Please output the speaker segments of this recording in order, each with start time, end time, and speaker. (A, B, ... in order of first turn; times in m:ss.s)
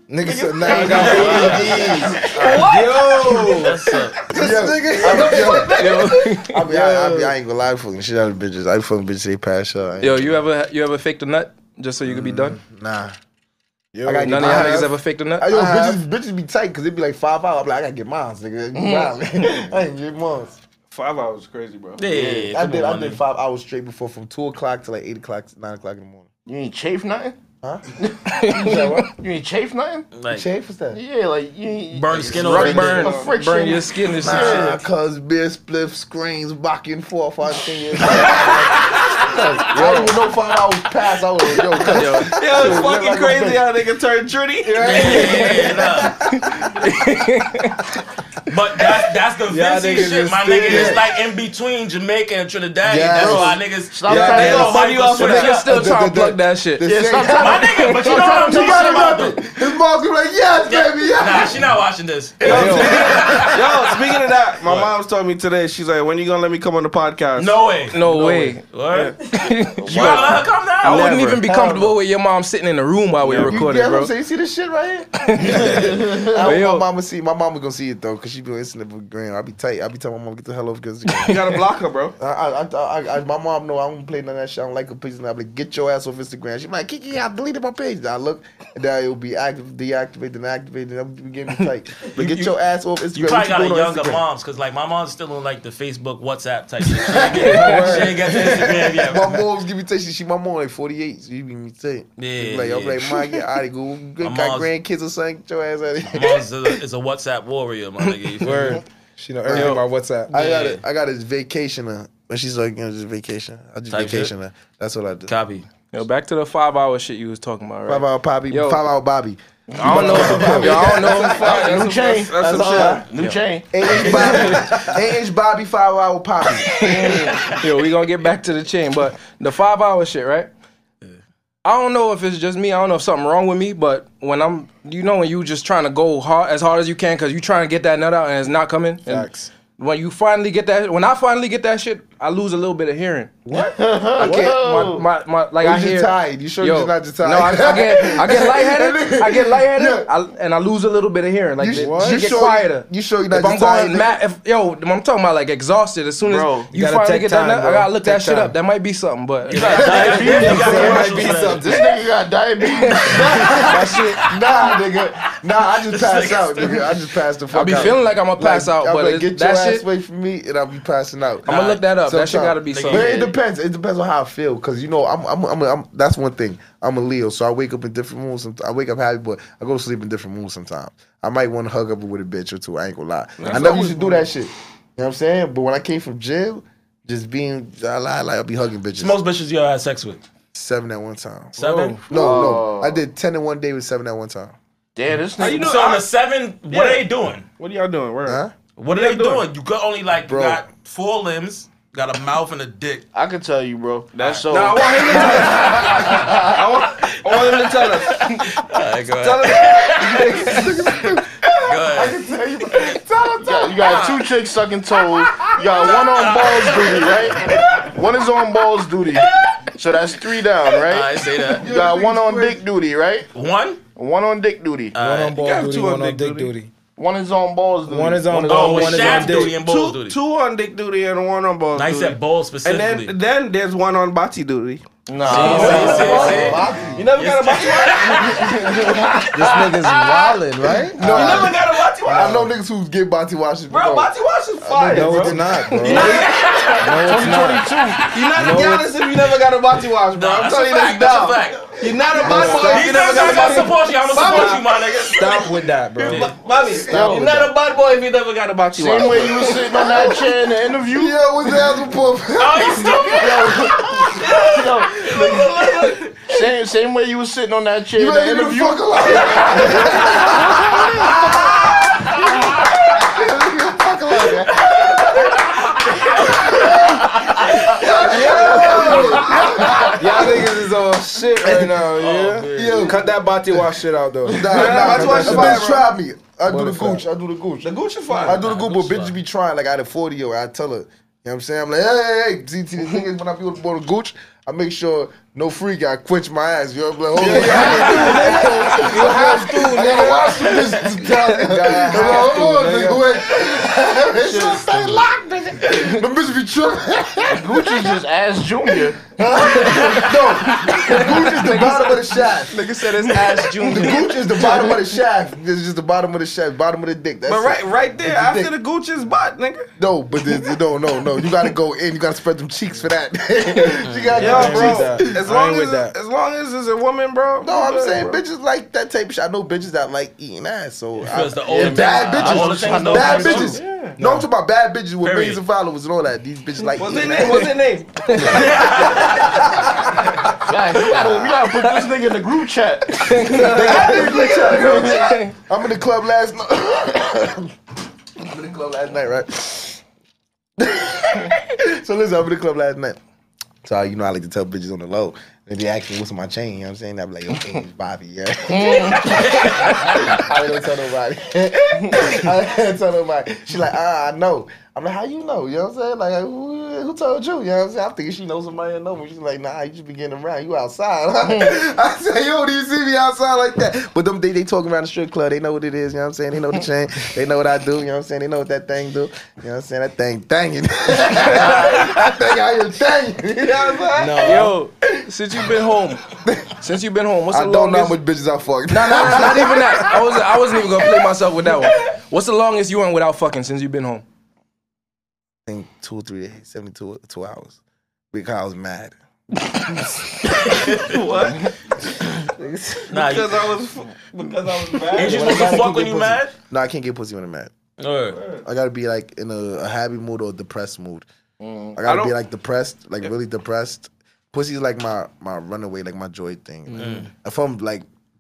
0:00.1-0:07.3 A
0:00.2-0:03.7 B
0:00.7-0:04.3 C
0:00.7-0:01.9 D
0:04.3-0:10.4 E
0:05.3-0:06.7 F
0:10.0-0:12.6 F
0:12.0-0:13.2 E
0:13.9-0:14.9 A
0:14.0-0:20.6 E
0:14.2-0:15.5 F
0:15.5-0:16.0 A
0:18.8-0:19.7 D
0:20.9-0:22.1 B
0:22.0-0:23.2 C
0:22.0-0:22.5 D
0:22.5-0:26.3 E
0:26.5-0:27.4 D
0:27.6-0:27.9 E
0:28.0-0:30.1 D
0:28.3-0:29.1 F
0:28.5-0:29.1 E
0:30.1-0:30.5 C
0:30.3-0:31.0 E
0:30.9-0:34.8 D
0:31.9-0:33.2 C
0:32.3-0:34.8 F
0:32.6-0:33.3 B
0:34.2-0:43.6 E
0:39.4-0:40.2 F
0:41.8-0:42.4 F
0:42.4-0:45.5 B
0:44.7-0:46.0 A
0:44.8-0:46.3 C
0:45.1-0:45.5 F
0:46.2-0:47.9 F
0:48.5-0:55.7 C
0:49.5-0:51.0 F
0:50.6-0:51.1 E
0:52.8-0:53.6 E
0:53.2-0:55.0 D
0:54.1-0:55.4 B
0:54.1-0:54.6 F
0:55.1-0:56.9 F
0:55.4-1:01.7 E
0:56.8-0:59.2 D
0:57.3-0:59.6 C
1:00.7-1:04.1 C
1:02.4-1:09.2 B
1:02.4-1:03.1 F
1:02.6-1:03.6 E
1:04.6-1:04.9 C
1:07.4-1:08.0 C
1:07.9-1:08.6 F
1:08.6-1:09.2 C
1:09.2-1:14.1 F
1:09.8-1:10.5 D
1:09.8-1:11.2 C
1:10.8-1:11.4 B
1:11.4-1:11.9 E
1:13.2-1:13.6 B
1:13.5-1:21.6 E
1:15.2-1:16.8 F
1:15.4-1:16.5 D
1:21.2-1:22.2 B
1:22.2-1:34.2 E
1:32.1-1:32.6 C
1:33.1-1:39.4 C
1:36.9-1:46.5 E
1:37.4-1:38.1 F
1:37.4-1:38.3 A
1:42.2-1:43.3 C
1:44.2-1:44.7 C
1:46.1-1:48.8 C
1:48.4-1:50.3 A
1:48.4-1:48.8 F
1:49.4-1:55.3 E
1:49.5-1:49.8 F
1:50.3-1:50.8 C
1:53.9-1:54.3 C
1:55.3-1:55.7 C
1:55.9-1:58.8 F
1:57.9-2:01.3 E
1:59.8-2:04.7 D
1:59.8-2:01.5 F
1:59.9-2:00.6 A
2:00.8-2:03.1 B
2:02.7-2:03.1 E
2:03.7-2:06.9 E
2:04.1-2:04.5 C
2:06.8-2:10.5 F
2:06.8-2:07.4 C
2:11.6-2:23.5 F
2:19.1-2:19.5 A
2:23.5-2:24.5 A
2:23.6-2:25.1 D
2:24.2-2:40.8 F
2:25.6-2:30.1 E
2:31.6-2:34.1 E
2:31.8-2:32.4 A
2:36.2-2:36.7 D
2:36.7-2:38.6 A
2:39.5-2:41.8 C
2:39.5-2:43.7 D
2:39.6-2:41.9 A
2:42.7-2:43.5 F
2:43.1-3:09.2 E
2:43.4-2:44.3 A
2:44.0-2:44.4 C
2:45.9-2:47.0 C
2:47.5-2:49.8 F
2:51.5-2:51.8 C
2:51.5-2:53.3 F
2:52.7-2:53.3 C
3:03.4-3:04.3 B
3:09.0-3:10.2 C
3:10.5-3:11.6 E
3:11.6-3:12.0 C
3:11.6-3:12.0 F
3:12.1-3:14.6 E
3:12.1-3:13.0 D
3:15.0-3:15.8 D
3:15.4-3:16.1 B
3:15.4-3:17.4 C
3:16.7-3:17.1 B
3:17.6-3:19.4 B
3:18.3-3:18.5 E
3:18.8-3:23.0 C
3:20.2-3:20.6 E
3:23.1-3:26.6 D
3:24.2-3:28.5 B
3:25.5-3:32.2 C
3:29.2-3:30.8 B
3:30.3-3:31.3 E
3:31.8-3:34.1 E
3:33.4-3:43.3 D
3:33.8-3:34.2 C
3:35.3-3:35.8 E
3:35.5-3:37.6 C
3:40.8-3:41.7 C
3:41.6-3:42.6 E
3:43.3-3:43.8 C
3:44.0-3:45.0 D
3:44.9-3:45.4 C
3:45.0-3:46.7 A
3:45.3-3:46.5 B
3:47.0-3:49.4 D
3:47.9-3:49.6 A
3:48.4-3:50.2 C
3:48.7-3:59.0 B
3:51.8-3:53.1 C
3:55.1-3:56.8 D
3:55.2-3:59.0 C
3:55.4-3:57.1 E
3:55.5-3:55.9 F
3:58.2-4:00.4 D
3:59.3-4:01.5 A
4:01.0-4:06.0 E
4:01.0-4:02.5 B
4:02.1-4:02.5 A
4:03.7-4:06.7 B
4:04.8-4:07.7 A
4:05.8-4:08.2 D
4:05.9-4:07.1 C
4:08.1-4:14.4 B
4:08.3-4:09.0 A
4:10.2-4:16.4 C
4:12.2-4:12.9 E
4:12.2-4:16.4 A
4:16.0-4:20.0 B
4:16.8-4:17.5 D
4:18.7-4:21.2 D
4:19.7-4:20.3 E
4:20.8-4:24.2 E
4:22.4-4:24.3 C
4:23.2-4:25.5 D
4:24.1-4:26.2 B
4:25.1-4:26.0 C
4:26.2-4:31.2 D
4:27.9-4:35.5 E
4:34.7-4:35.1 C
4:35.7-4:37.9 C
4:36.1-4:40.5 E
4:38.1-4:39.2 B
4:38.7-4:39.2 C
4:39.3-4:39.8 D
4:40.0-4:45.8 A
4:41.7-4:43.1 C
4:42.5-4:43.6 E
4:44.2-5:08.0 E
4:44.4-4:45.9 B
4:46.5-4:47.0 A
4:47.6-4:48.4 B
4:48.2-4:49.2 C
4:57.2-5:03.0 A
4:57.2-4:58.8 B
4:57.4-4:59.3 F
5:01.7-5:02.3 F
5:04.2-5:05.0 D
5:07.3-5:09.0 D
5:09.2-5:12.6 E
5:09.6-5:10.0 D
5:10.9-5:14.7 F
5:13.5-5:18.5 E
5:17.3-5:19.7 B
5:19.8-5:25.2 E
5:23.8-5:24.4 C
5:24.1-5:25.9 A
5:24.2-5:28.2 B
5:27.4-5:37.6 E
5:31.0-5:33.6 C
5:31.5-5:33.6 D
5:33.3-5:34.0 B
5:34.0-5:34.3 A
5:35.0-5:35.4 C
5:36.8-5:39.1 B
5:38.1-5:38.4 F
5:38.2-5:40.1 E
5:38.2-5:39.4 C
5:40.3-5:45.0 D
5:43.1-5:45.3 F
5:43.3-5:47.5 E
5:43.7-5:44.0 B
5:48.2-5:49.8 E
5:50.6-5:53.0 E
5:53.6-6:24.2 E
5:58.5-5:59.6 D
5:59.0-6:00.1 C
6:11.3-6:11.6 D
6:23.4-6:24.6 B
6:24.0-6:28.0 F
6:26.2-6:26.5 E
6:27.3-6:30.3 E
6:28.7-6:34.0 F
6:35.5-6:37.6 E
6:38.1-6:39.0 E
6:39.5-6:40.6 E
6:40.5-6:41.0 C
6:40.8-6:41.5 B
6:42.4-6:42.7 E
6:42.9-6:43.5 C
6:42.9-6:45.6 B
6:44.9-6:46.3 C
6:45.0-6:47.5 E
6:47.8-6:48.2 C
6:48.1-6:48.4 B
6:48.4-6:51.1 E
6:51.4-6:51.8 D
6:51.8-6:57.9 E
6:51.8-6:52.1 B
6:56.7-6:57.1 C